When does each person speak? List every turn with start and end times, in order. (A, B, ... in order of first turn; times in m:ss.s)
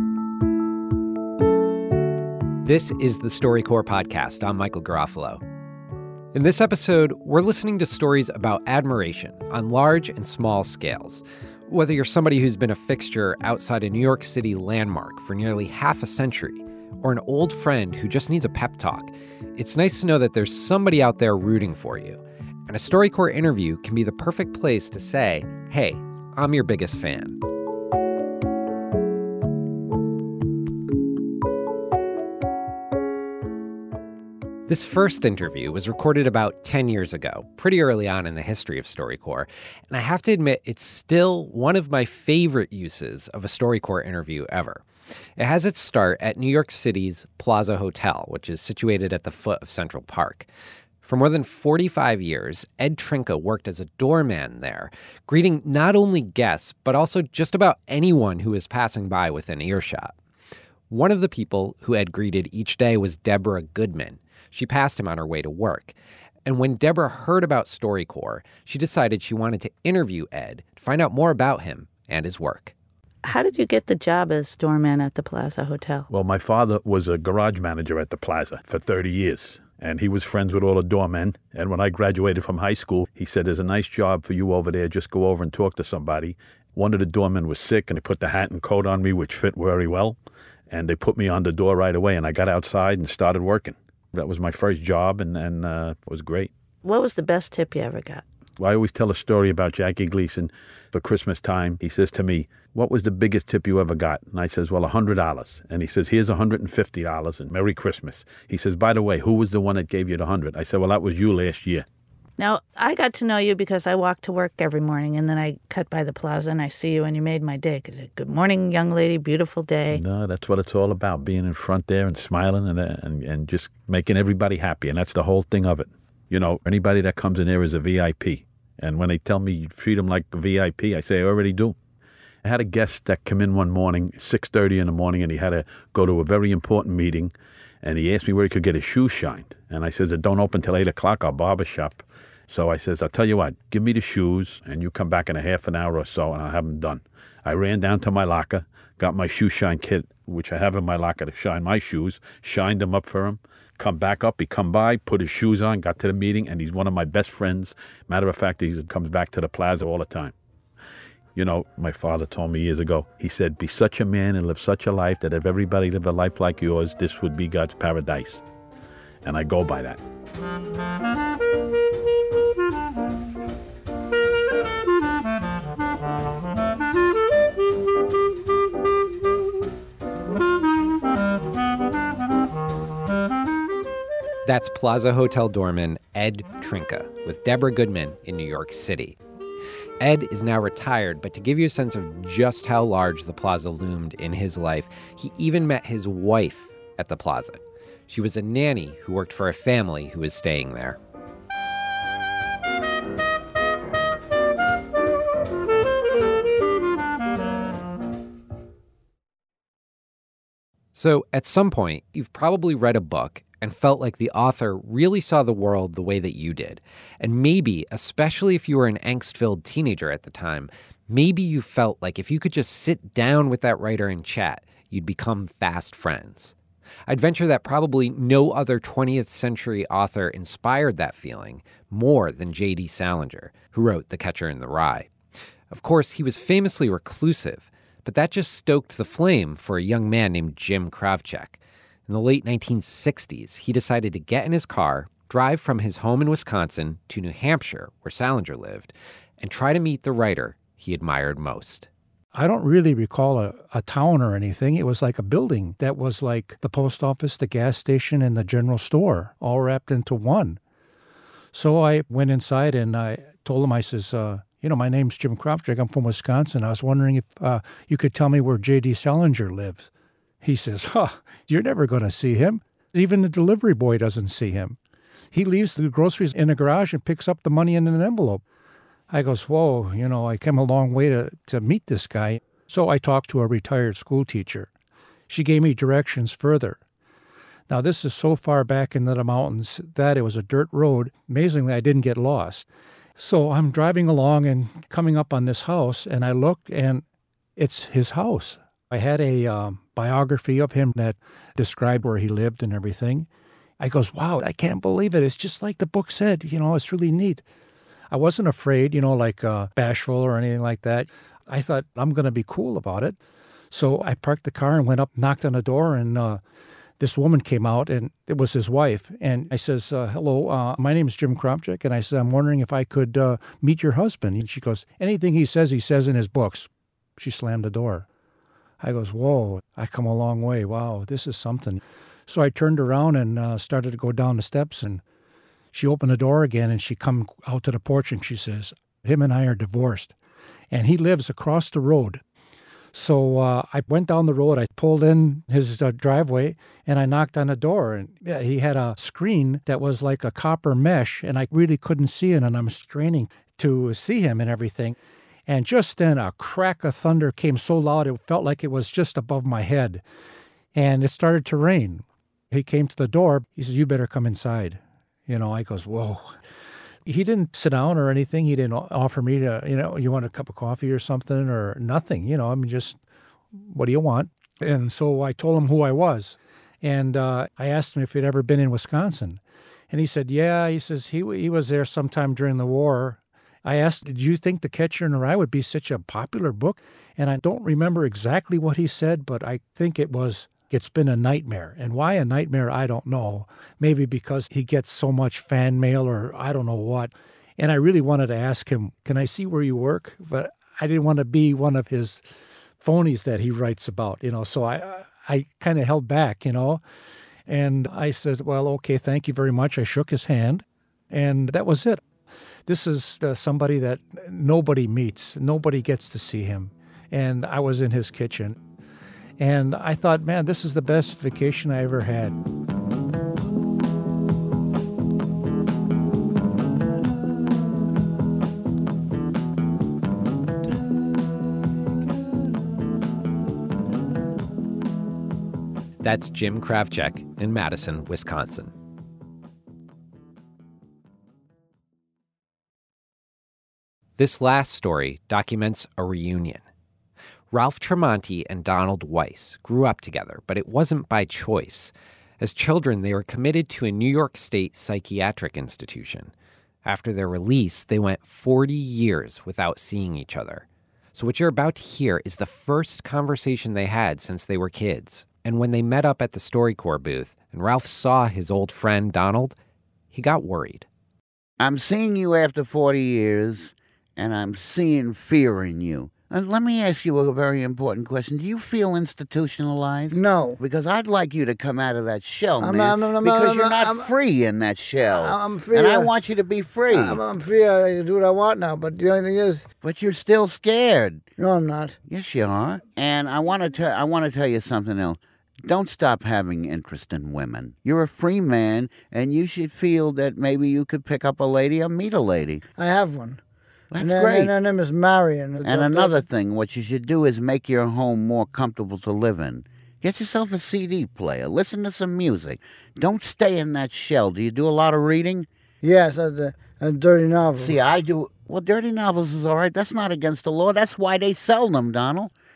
0:02.6-0:05.4 A
0:06.3-0:27.4 A
0:34.7-0:44.8 A
0:45.4-0:50.5 A
0:51.0-1:00.2 A
1:00.9-1:12.7 A
1:13.2-1:16.1 B
1:16.1-1:30.2 C
1:30.7-1:36.5 C
1:36.8-1:38.2 B
1:38.6-1:51.8 C
1:52.4-2:00.0 B
1:59.9-2:11.8 C
2:12.4-2:40.3 C
2:41.4-2:48.4 C
2:49.2-2:50.0 C
3:04.4-3:09.2 A
3:10.0-3:21.0 A
3:31.0-3:46.6 A
3:47.1-3:55.1 A
3:55.7-4:11.9 A
4:12.3-4:20.6 D
4:21.5-4:29.9 D
4:30.4-4:34.8 D
4:35.3-4:38.4 D
4:39.1-4:44.7 D
4:45.3-4:46.8 D
4:47.7-4:52.7 D
4:53.2-4:57.0 D
4:57.6-5:03.3 D
5:03.8-5:07.4 D
5:08.1-5:13.2 D
5:13.7-5:16.4 D
5:17.0-5:28.1 D
5:28.8-5:35.0 D
5:35.7-5:40.1 D
5:40.7-5:42.2 D
5:42.9-5:55.0 D
5:55.5-6:00.0 D
6:00.7-6:06.4 D
6:07.1-6:13.0 D
6:13.5-6:19.4 D
6:19.9-6:42.2 D
6:42.8-6:46.8 D
6:47.5-6:52.0 D
6:52.7-6:58.6 D
6:59.4-7:02.4 D
7:16.0-7:18.7 A
7:24.2-7:26.6 A
7:27.5-7:36.3 A
7:36.8-7:49.6 A
7:50.1-7:50.9 A
7:51.6-8:07.2 E
8:00.1-8:00.6 F
8:02.6-8:04.1 F
8:05.1-8:06.1 F
8:06.9-8:09.7 F
8:09.8-8:11.3 E
8:11.4-8:12.0 F
8:12.1-8:22.6 E
8:22.8-8:23.4 F
8:23.9-8:24.6 E
8:24.0-8:26.2 F
8:25.6-8:35.5 E
8:35.8-8:37.8 F
8:37.6-8:42.3 E